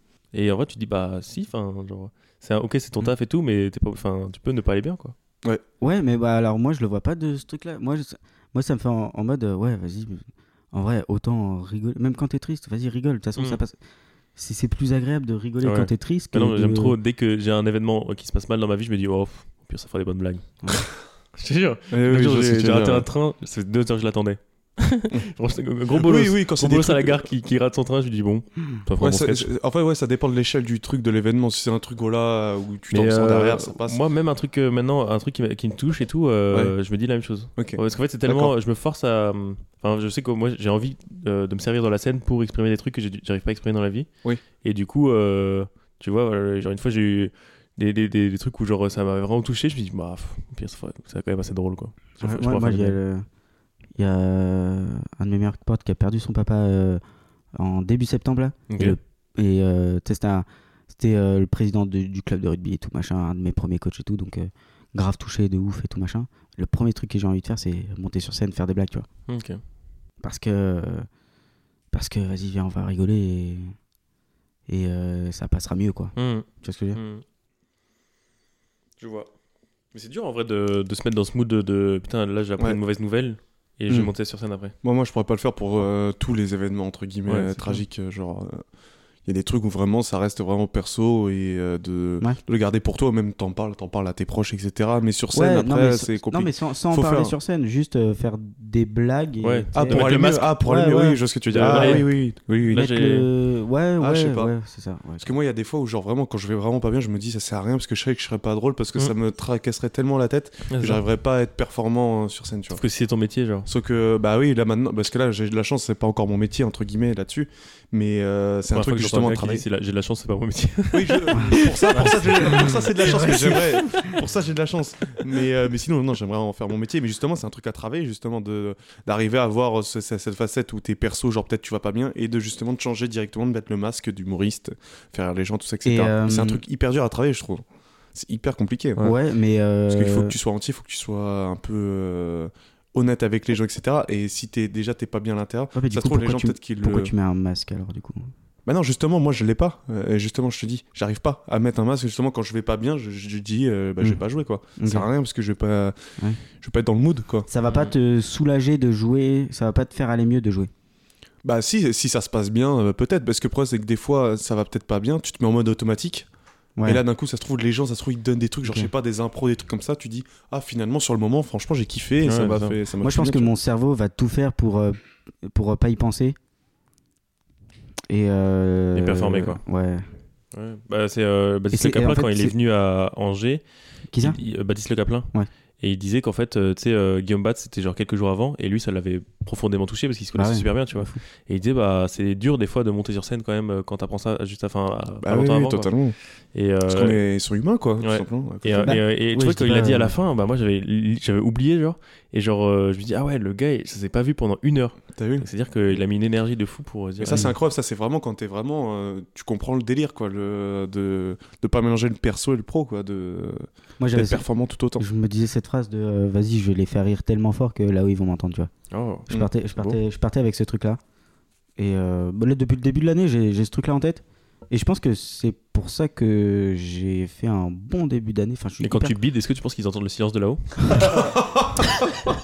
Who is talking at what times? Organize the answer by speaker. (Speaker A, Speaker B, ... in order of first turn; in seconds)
Speaker A: 0.3-5.1, 15.6-29.5, 32.9-44.1, 44.6-53.0, 58.7-59.0, 69.3-69.6, 76.2-77.2, 79.0-79.3, 79.9-84.7, 87.3-87.8, 99.4-100.5, 101.5-103.3, 110.7-111.0, 112.7-113.7, 118.7-122.7, 157.6-157.9, 172.2-172.8, 178.9-179.6, 180.5-183.6, 184.2-196.0, 196.5-197.2, 198.0-207.5, 218.9-220.0, 228.8-231.2
Speaker B: 5.8-13.7, 14.3-16.9, 52.2-53.2, 54.0-57.0, 57.5-69.1, 70.2-71.1, 71.9-73.7, 74.7-77.0, 95.3-102.0, 102.7-105.3, 121.3-123.6, 135.8-136.6, 139.0-140.3, 145.7-148.3, 154.8-155.1, 157.5-160.7, 166.8-167.0, 168.6-168.9, 173.0-176.3, 178.1-180.1, 181.7-182.5, 184.1-184.4, 190.3-191.2, 198.8-200.1, 214.0-214.4, 214.9-218.7, 219.3-221.0, 221.8-229.2
Speaker C: 21.9-23.1, 25.9-27.2, 29.0-34.0, 37.5-38.5, 84.8-88.6, 89.2-97.3, 99.7-102.8, 104.0-104.5, 105.2-112.8, 113.7-119.6, 120.9-139.1, 139.9-147.1, 148.7-155.9, 156.6-157.5, 161.4-166.3, 166.8-173.5, 195.2-196.2, 196.9-199.0, 205.2-205.5, 207.2-215.0, 231.3-231.8